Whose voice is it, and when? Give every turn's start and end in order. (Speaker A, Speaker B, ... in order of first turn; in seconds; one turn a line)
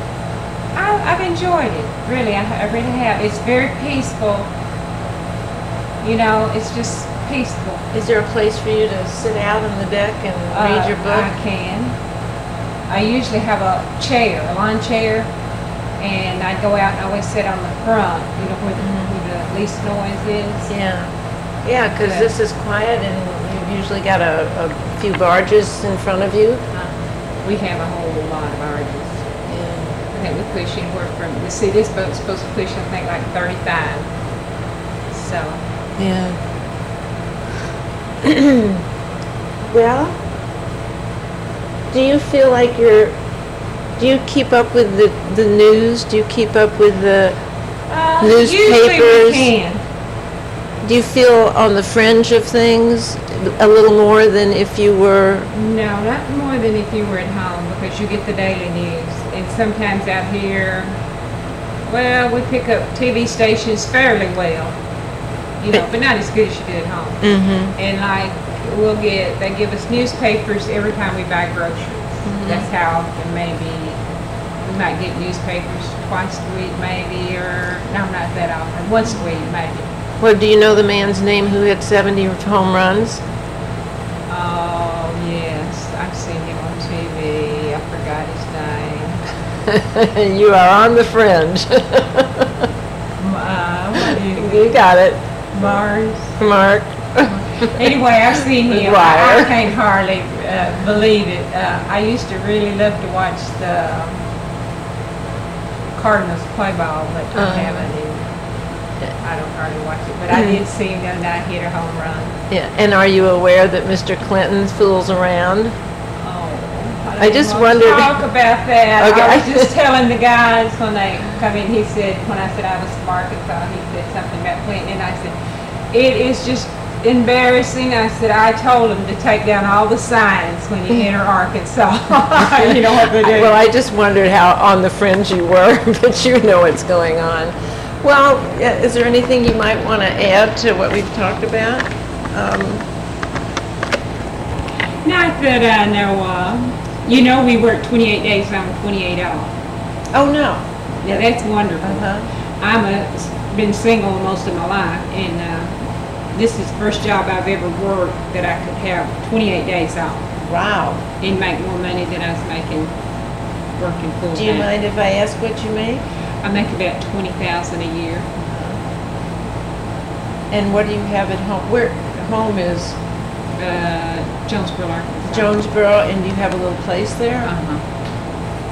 Speaker A: 0.7-4.5
Speaker A: 6.0-7.8
Speaker B: 7.9-11.3
Speaker A: 10.5-11.9
Speaker A: 12.9-15.3
Speaker A: 16.0-20.7
Speaker B: 18.8-19.1
Speaker B: 20.7-21.1
Speaker B: 21.6-26.6
Speaker A: 22.0-22.3
Speaker A: 26.7-29.2
Speaker B: 29.5-30.0
Speaker A: 30.1-34.1
Speaker A: 35.1-35.6
Speaker B: 36.0-36.4
Speaker B: 38.2-38.8
Speaker B: 39.6-40.2
Speaker B: 41.9-43.2
Speaker B: 44.0-47.4
Speaker A: 47.9-49.8
Speaker B: 48.2-49.5
Speaker B: 50.8-55.5
Speaker A: 55.5-61.0
Speaker A: 61.8-64.7
Speaker A: 65.6-67.2
Speaker B: 67.2-67.7
Speaker A: 67.8-74.0
Speaker B: 72.2-72.7
Speaker A: 74.6-79.9
Speaker B: 80.2-83.2
Speaker A: 84.3-89.2
Speaker B: 89.7-92.6
Speaker A: 93.2-94.7
Speaker B: 94.3-95.2
Speaker A: 95.5-96.3
Speaker B: 96.4-97.8
Speaker A: 97.7-104.2
Speaker B: 98.6-99.5
Speaker A: 105.9-108.2
Speaker B: 107.3-107.9
Speaker A: 109.2-112.3
Speaker B: 110.3-110.6
Speaker B: 112.5-115.7
Speaker A: 116.2-125.3
Speaker B: 117.2-118.2
Speaker B: 119.0-119.7
Speaker A: 125.9-133.6
Speaker B: 133.2-142.8
Speaker A: 145.0-149.5
Speaker B: 150.1-151.2
Speaker A: 151.0-152.1
Speaker B: 151.8-152.3
Speaker A: 152.6-155.7
Speaker A: 156.3-160.3
Speaker B: 160.4-161.1
Speaker A: 161.2-162.9
Speaker A: 163.8-164.7
Speaker B: 164.3-166.0
Speaker A: 166.4-168.3
Speaker B: 168.4-168.8
Speaker B: 170.5-173.0
Speaker A: 173.6-175.5
Speaker B: 175.3-177.5
Speaker A: 177.4-177.8